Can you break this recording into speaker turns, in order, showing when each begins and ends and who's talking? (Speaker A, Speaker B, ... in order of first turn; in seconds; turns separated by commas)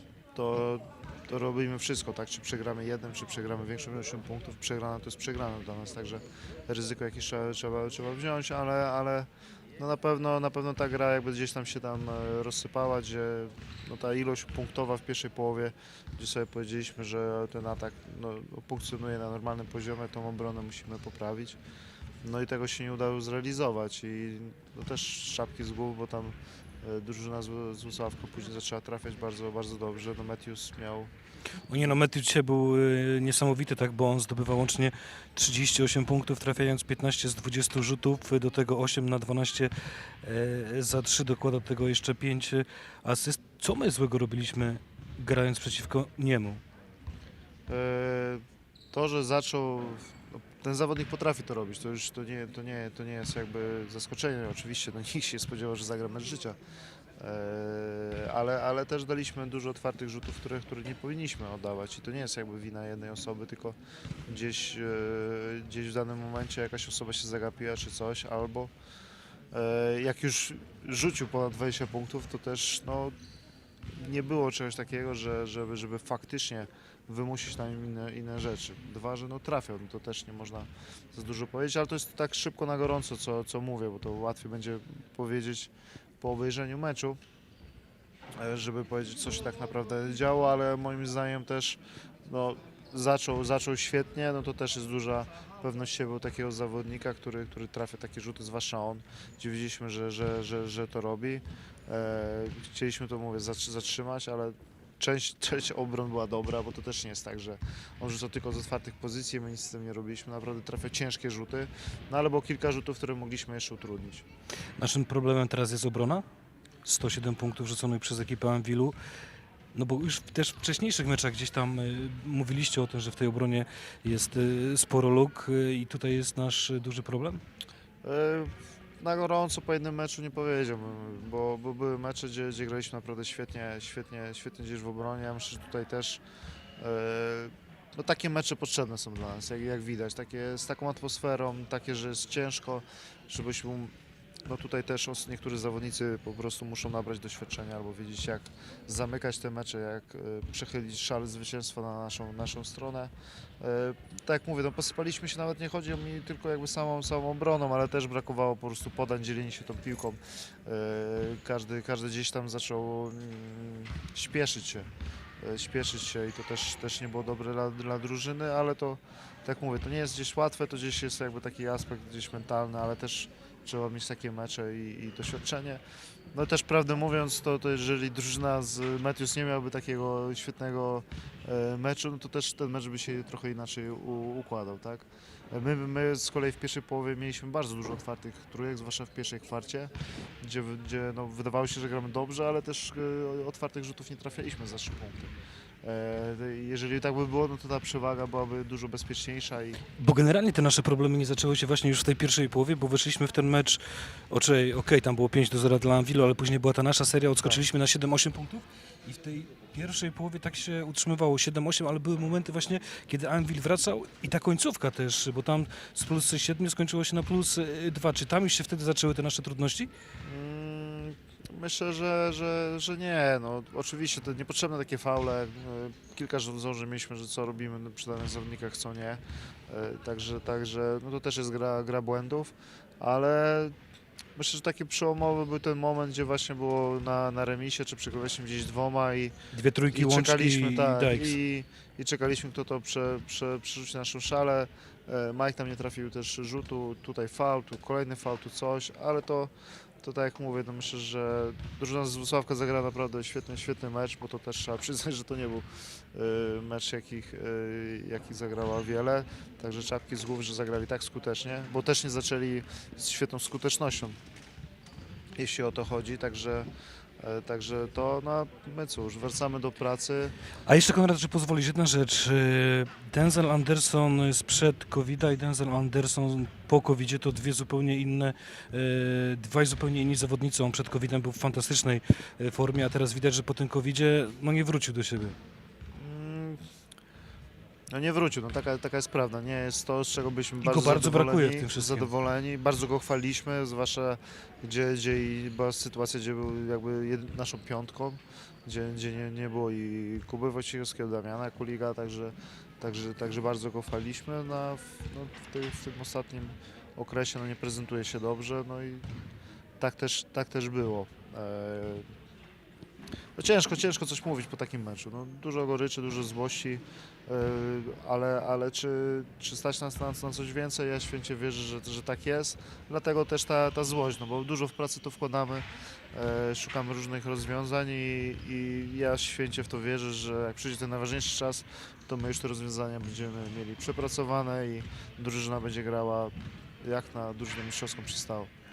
Speaker A: 0.3-21.6, Speaker A: 22.2-31.1, Speaker B: 31.7-39.7, Speaker B: 40.2-46.6, Speaker A: 47.7-56.6, Speaker A: 57.2-68.7, Speaker A: 69.5-73.2, Speaker A: 73.9-87.2, Speaker A: 88.4-114.2, Speaker B: 114.8-116.2, Speaker B: 116.8-118.9, Speaker B: 119.7-127.4, Speaker A: 128.0-136.2, Speaker A: 136.8-143.9, Speaker A: 144.4-164.9, Speaker A: 165.4-175.8, Speaker A: 176.3-195.3, Speaker A: 195.8-199.8, Speaker B: 200.0-219.9, Speaker A: 220.2-233.7, Speaker A: 234.3-239.3, Speaker B: 239.5-241.4, Speaker A: 239.9-264.2, Speaker A: 265.4-266.7, Speaker A: 267.2-270.3, Speaker B: 270.7-285.4, Speaker A: 285.9-286.6, Speaker A: 287.9-309.1, Speaker B: 290.6-292.1, Speaker A: 309.8-312.1, Speaker A: 313.4-338.5